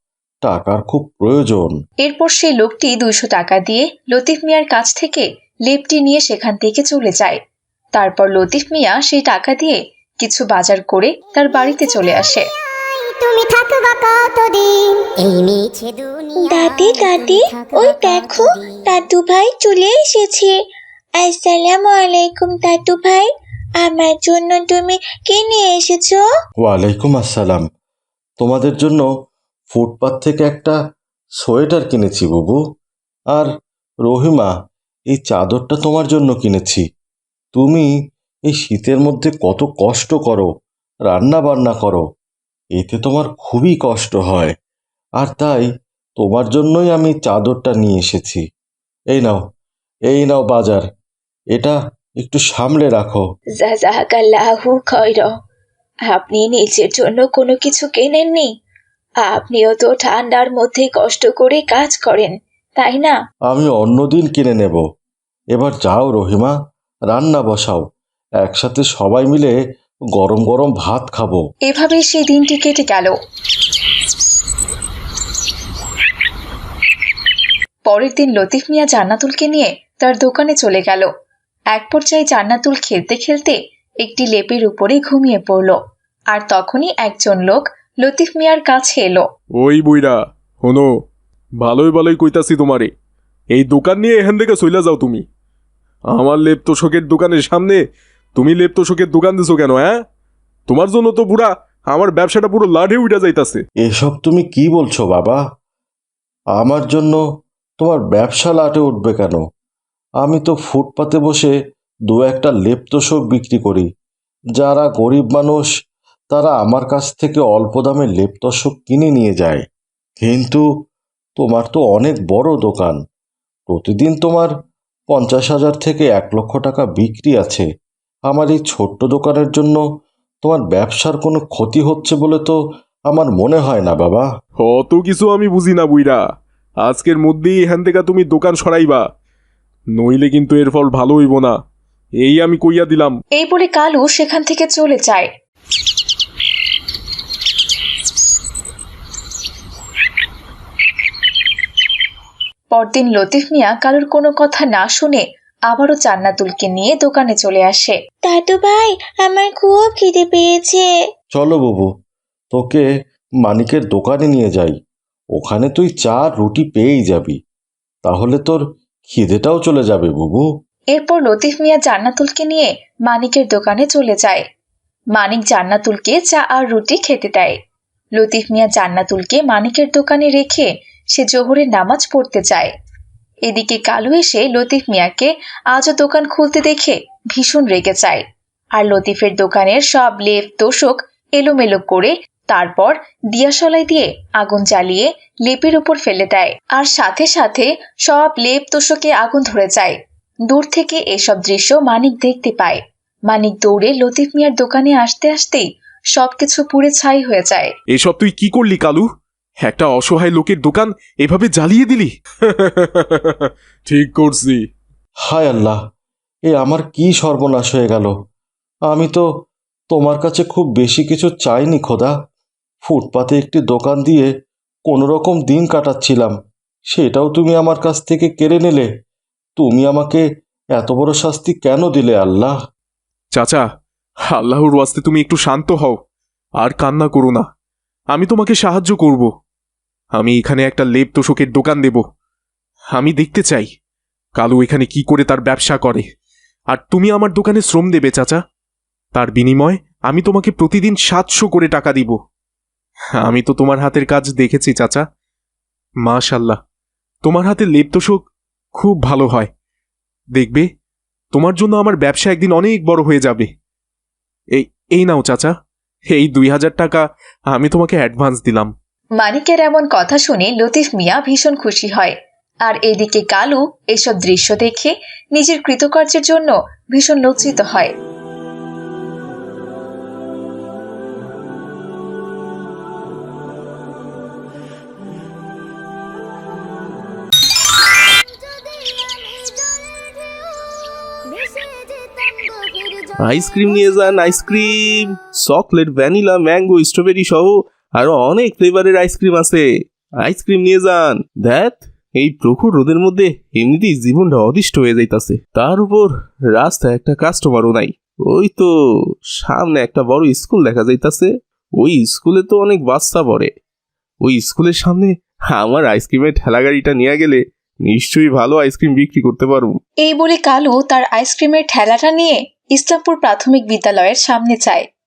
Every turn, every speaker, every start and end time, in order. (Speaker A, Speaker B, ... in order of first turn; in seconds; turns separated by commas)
Speaker A: 0.4-1.8, Speaker B: 2.0-7.4, Speaker B: 8.0-12.4, Speaker C: 11.4-12.3, Speaker C: 12.9-18.8, Speaker D: 16.4-20.5, Speaker D: 21.2-26.2, Speaker A: 26.6-27.6, Speaker A: 28.4-29.1, Speaker A: 29.7-30.8, Speaker A: 31.4-32.6, Speaker A: 34.1-34.5, Speaker A: 35.1-36.8, Speaker A: 37.5-37.9, Speaker A: 38.5-40.5, Speaker A: 41.1-42.0, Speaker A: 42.8-44.5, Speaker A: 45.2-48.4, Speaker A: 49.1-49.4, Speaker A: 50.1-50.8, Speaker A: 51.5-53.2, Speaker B: 53.6-55.3, Speaker B: 56.1-58.5, Speaker B: 59.2-63.1, Speaker A: 63.5-64.8, Speaker A: 65.5-66.5, Speaker A: 67.1-67.8, Speaker A: 68.4-69.5, Speaker A: 70.2-71.4, Speaker B: 71.7-73.1, Speaker B: 77.9-81.1, Speaker B: 81.7-85.8, Speaker B: 86.3-89.2, Speaker E: 89.6-90.9, Speaker E: 91.6-92.9, Speaker E: 93.5-95.2, Speaker E: 96.1-97.8, Speaker E: 98.3-100.0, Speaker E: 100.7-103.6, Speaker A: 103.8-105.4, Speaker A: 106.6-107.2, Speaker A: 107.8-109.4, Speaker A: 110.2-111.5, Speaker A: 112.1-113.9, Speaker A: 114.6-115.7, Speaker A: 116.3-119.6, Speaker A: 120.2-120.6, Speaker A: 121.4-123.0, Speaker A: 123.7-124.5, Speaker A: 125.1-127.7, Speaker A: 128.3-129.8, Speaker A: 130.4-132.6, Speaker A: 133.1-134.3, Speaker E: 134.6-136.2, Speaker E: 136.8-139.1, Speaker E: 140.0-141.6, Speaker E: 142.2-143.2, Speaker B: 143.4-145.3, Speaker B: 152.7-158.0, Speaker D: 158.2-160.8, Speaker A: 161.3-161.9, Speaker A: 162.5-162.8, Speaker A: 163.4-164.7, Speaker A: 165.3-167.4, Speaker A: 168.1-170.4, Speaker B: 170.9-174.4, Speaker B: 175.2-177.6, Speaker B: 178.2-182.7, Speaker B: 183.5-188.2, Speaker B: 188.8-199.9, Speaker B: 200.5-207.7, Speaker E: 207.9-209.1, Speaker E: 209.6-212.1, Speaker E: 212.7-214.7, Speaker A: 215.3-215.8, Speaker A: 216.5-218.1, Speaker A: 218.9-219.2, Speaker A: 219.9-222.1, Speaker A: 222.8-224.3, Speaker A: 224.9-226.3, Speaker A: 226.9-228.9, Speaker A: 229.6-230.2, Speaker A: 230.8-232.6, Speaker E: 233.3-233.7, Speaker E: 234.3-236.0, Speaker E: 236.6-237.5, Speaker E: 238.1-239.3, Speaker E: 240.1-242.0, Speaker E: 242.9-243.7, Speaker E: 244.3-246.1, Speaker E: 246.7-248.4, Speaker E: 249.1-252.2, Speaker E: 253.2-255.0, Speaker E: 256.0-256.6, Speaker E: 257.2-259.5, Speaker E: 260.3-260.7, Speaker E: 261.3-263.5, Speaker E: 264.5-265.5, Speaker E: 266.1-268.7, Speaker B: 269.2-272.1, Speaker B: 272.7-277.9, Speaker C: 288.3-290.6, Speaker C: 291.3-294.4, Speaker F: 293.2-299.6, Speaker F: 300.2-308.7, Speaker F: 309.4-313.5, Speaker F: 314.2-319.8, Speaker B: 320.0-324.8